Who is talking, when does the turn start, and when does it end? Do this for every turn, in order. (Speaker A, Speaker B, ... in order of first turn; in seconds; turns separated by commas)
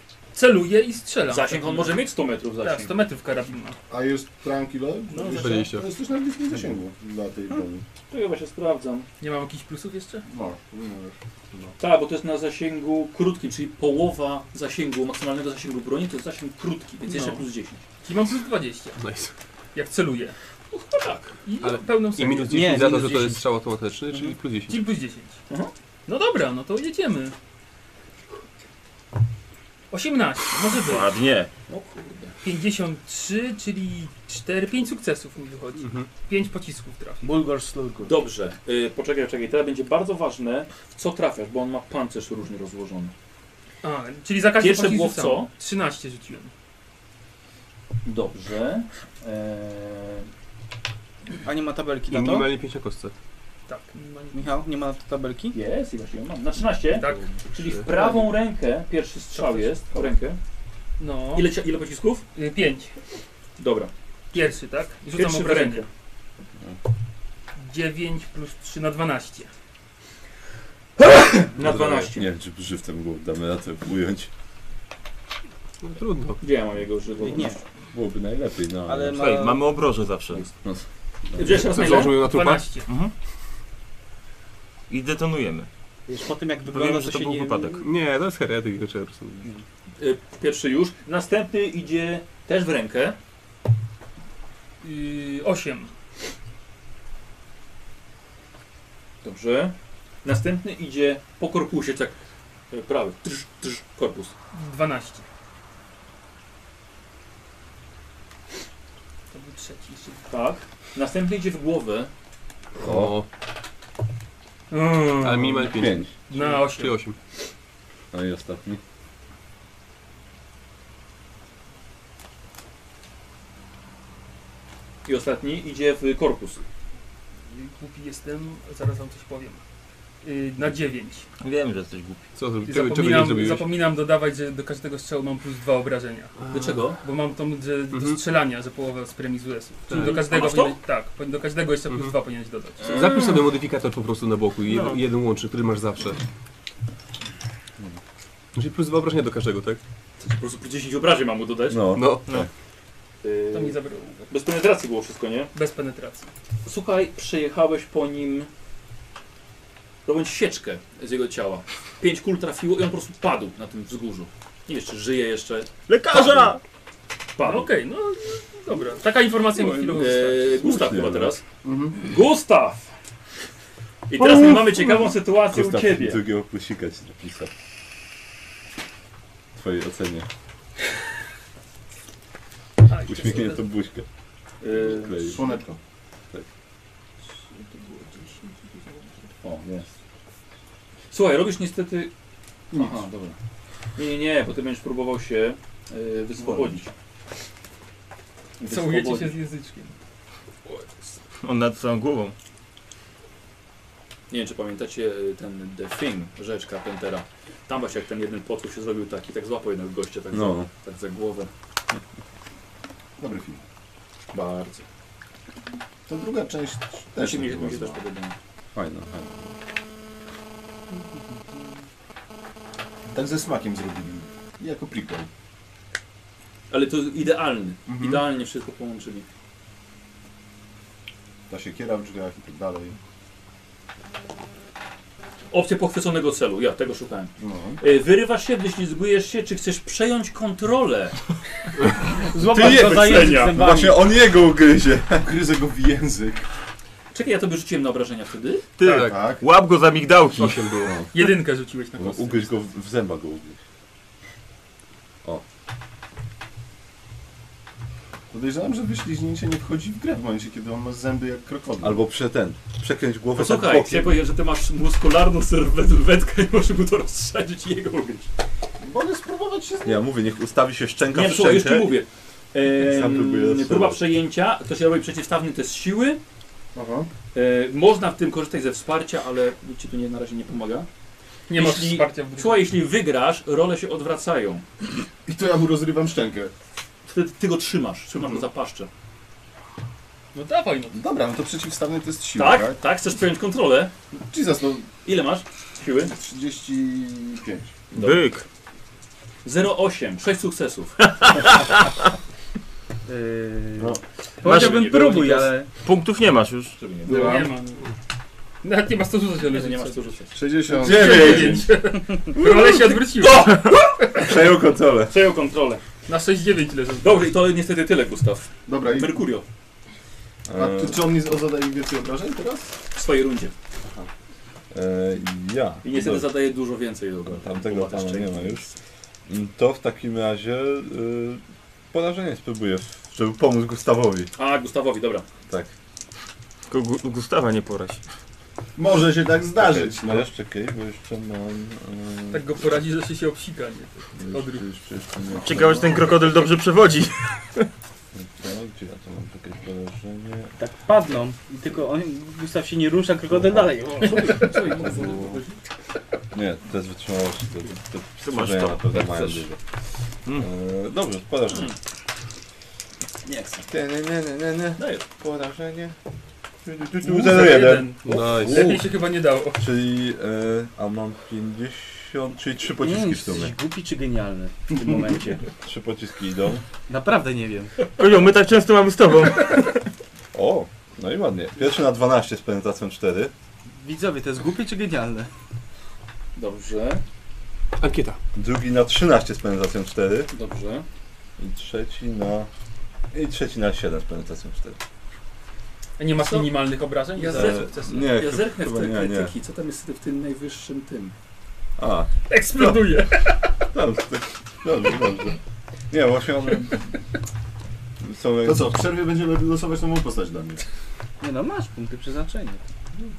Speaker A: 0.3-2.1, Speaker B: 1.2-2.9, Speaker A: 2.6-3.8, Speaker C: 3.9-7.8, Speaker A: 5.1-5.8, Speaker D: 5.3-5.8, Speaker B: 8.1-9.1, Speaker A: 9.2-10.2, Speaker C: 10.3-11.7, Speaker B: 11.8-17.8, Speaker A: 17.1-17.4, Speaker A: 18.0-19.0, Speaker D: 19.0-19.3, Speaker A: 19.7-20.4, Speaker B: 20.7-21.3, Speaker A: 21.4-23.0, Speaker D: 21.6-24.8, Speaker E: 22.5-23.4, Speaker A: 24.6-25.4, Speaker A: 26.1-27.3, Speaker A: 29.9-31.1, Speaker F: 30.8-31.5, Speaker B: 31.7-32.3, Speaker A: 32.4-37.2, Speaker D: 35.8-36.1, Speaker E: 37.2-38.1, Speaker B: 38.0-43.1, Speaker A: 43.8-46.5, Speaker B: 44.6-45.5, Speaker B: 48.0-50.3, Speaker E: 51.4-52.5, Speaker D: 52.1-53.1, Speaker A: 53.7-54.6, Speaker E: 54.3-55.5, Speaker B: 55.5-60.4, Speaker A: 56.9-57.3, Speaker D: 57.0-57.8, Speaker A: 59.3-59.8, Speaker A: 61.0-61.5, Speaker B: 61.3-62.2, Speaker A: 62.3-62.9, Speaker B: 63.6-63.9, Speaker A: 64.3-65.8, Speaker B: 65.1-65.9, Speaker A: 67.6-69.5, Speaker B: 71.0-72.3, Speaker D: 71.6-72.1, Speaker G: 72.2-74.3, Speaker D: 75.8-76.4, Speaker B: 76.4-77.6, Speaker E: 77.2-77.6, Speaker G: 77.9-79.1, Speaker E: 78.8-79.7, Speaker F: 79.1-80.4, Speaker G: 80.6-81.5, Speaker B: 81.3-82.2, Speaker D: 81.5-82.7, Speaker A: 81.5-82.9, Speaker F: 82.9-83.1, Speaker F: 84.9-85.7, Speaker E: 86.1-87.8, Speaker F: 86.7-87.8, Speaker D: 87.8-89.4, Speaker B: 90.0-93.2, Speaker A: 94.8-95.9, Speaker B: 99.2-102.2, Speaker B: 102.7-104.3, Speaker A: 104.5-105.2, Speaker A: 109.3-110.3, Speaker B: 110.3-112.1, Speaker G: 112.8-113.2, Speaker D: 112.8-113.3, Speaker A: 114.7-117.0, Speaker D: 115.2-117.2, Speaker G: 115.7-116.1, Speaker G: 118.1-118.8, Speaker B: 125.0-126.6, Speaker A: 127.5-129.6, Speaker A: 130.2-131.2, Speaker F: 131.4-132.3, Speaker D: 132.3-133.7, Speaker A: 132.6-136.3, Speaker B: 136.5-137.0, Speaker A: 137.0-143.1, Speaker D: 137.9-138.2, Speaker D: 139.9-140.3, Speaker B: 140.2-140.7, Speaker D: 141.9-142.1, Speaker D: 142.8-146.2, Speaker B: 142.8-143.2, Speaker F: 144.7-145.0, Speaker D: 148.5-149.8, Speaker B: 150.2-151.8, Speaker G: 151.7-152.5, Speaker D: 151.9-152.2, Speaker B: 153.2-153.8, Speaker A: 153.5-154.3, Speaker B: 154.3-155.5, Speaker A: 155.5-156.3, Speaker B: 156.6-158.5, Speaker B: 160.1-166.5, Speaker F: 165.9-166.6, Speaker B: 167.3-167.7, Speaker A: 167.4-170.5, Speaker G: 169.6-171.3, Speaker B: 169.9-171.4, Speaker C: 171.6-172.0, Speaker B: 172.0-172.9, Speaker B: 174.1-176.2, Speaker G: 174.2-174.8, Speaker G: 175.5-177.5, Speaker G: 179.5-180.3, Speaker A: 182.8-183.7, Speaker G: 183.1-184.1, Speaker B: 184.6-185.6, Speaker G: 184.8-185.5, Speaker C: 185.2-185.8, Speaker A: 187.5-189.3, Speaker B: 189.4-189.9, Speaker B: 191.1-192.1, Speaker B: 192.7-193.3, Speaker C: 192.7-193.1, Speaker B: 193.9-196.9, Speaker C: 196.4-196.8, Speaker B: 198.6-199.4, Speaker A: 198.7-199.9, Speaker F: 201.4-202.3, Speaker B: 204.3-211.5, Speaker G: 210.3-210.7, Speaker C: 213.2-213.6, Speaker B: 214.3-214.8, Speaker C: 216.1-218.0, Speaker B: 217.2-218.3, Speaker G: 218.7-219.6, Speaker C: 223.1-225.3, Speaker B: 226.7-229.3, Speaker C: 227.9-228.2, Speaker C: 231.5-232.9, Speaker B: 235.5-241.2, Speaker C: 237.4-237.8, Speaker E: 242.2-244.0, Speaker G: 242.4-245.3, Speaker B: 242.7-243.3, Speaker C: 245.2-246.5, Speaker B: 247.1-248.7, Speaker F: 248.8-250.9, Speaker D: 248.8-249.2, Speaker C: 248.9-249.4, Speaker D: 250.3-251.0, Speaker G: 250.8-251.3, Speaker A: 251.1-252.6, Speaker G: 252.0-253.6, Speaker C: 258.3-262.0, Speaker G: 261.8-264.2, Speaker B: 263.3-268.3, Speaker C: 268.8-270.0, Speaker G: 269.8-272.0, Speaker B: 271.1-276.2, Speaker G: 272.7-274.0, Speaker C: 276.7-277.1, Speaker B: 277.3-280.9, Speaker A: 281.5-282.7, Speaker B: 281.5-284.6, Speaker C: 285.2-286.5, Speaker B: 287.1-288.9, Speaker A: 290.3-291.0, Speaker C: 290.9-292.8, Speaker B: 292.3-293.9, Speaker C: 294.1-294.9, Speaker B: 295.0-296.1, Speaker C: 296.1-298.1, Speaker F: 297.9-298.4, Speaker B: 299.4-301.0, Speaker F: 301.0-301.9, Speaker E: 303.1-305.7, Speaker F: 304.4-306.8, Speaker B: 304.4-305.5, Speaker B: 306.8-307.4, Speaker A: 307.0-307.9, Speaker C: 307.1-307.5, Speaker A: 308.6-310.1, Speaker B: 309.5-310.4, Speaker C: 310.3-311.7, Speaker A: 310.7-314.1, Speaker G: 310.8-311.7, Speaker B: 313.2-313.9, Speaker G: 314.2-315.1, Speaker B: 315.1-315.8, Speaker A: 316.1-317.2, Speaker B: 317.0-319.4, Speaker C: 318.7-319.2, Speaker G: 320.5-321.0, Speaker C: 320.6-322.7, Speaker B: 322.9-323.5, Speaker G: 324.7-326.3, Speaker B: 325.8-328.8, Speaker G: 327.3-328.7, Speaker G: 329.3-331.4, Speaker G: 331.9-334.3, Speaker B: 334.4-335.3, Speaker F: 336.7-338.0, Speaker C: 338.8-340.3, Speaker G: 339.6-342.6, Speaker A: 342.3-344.7, Speaker G: 344.2-346.0, Speaker F: 345.4-347.7, Speaker G: 348.1-350.5, Speaker E: 350.6-354.3, Speaker G: 353.3-353.7, Speaker A: 354.0-354.6, Speaker B: 354.0-355.5, Speaker C: 354.7-355.4, Speaker G: 356.3-359.6, Speaker F: 358.2-359.5, Speaker G: 360.3-361.7, Speaker B: 363.2-363.6, Speaker G: 363.7-365.9, Speaker B: 364.8-365.0, Speaker G: 366.6-368.8, Speaker A: 367.0-369.6, Speaker D: 368.0-368.8, Speaker G: 369.6-373.5, Speaker E: 372.8-375.5, Speaker G: 375.6-376.6, Speaker E: 376.9-377.7, Speaker F: 377.9-379.7, Speaker G: 380.3-383.3, Speaker E: 383.7-385.3, Speaker B: 386.4-387.0, Speaker D: 387.8-388.2, Speaker G: 388.3-390.3, Speaker B: 390.3-390.9, Speaker G: 391.4-392.5, Speaker G: 393.1-394.8, Speaker A: 396.0-398.1, Speaker B: 396.1-396.6, Speaker B: 397.1-401.1, Speaker G: 397.3-399.3, Speaker G: 401.8-403.0, Speaker A: 402.3-403.5, Speaker G: 403.7-405.4, Speaker G: 405.9-406.9, Speaker G: 408.0-408.8, Speaker C: 408.4-410.6, Speaker E: 411.2-412.6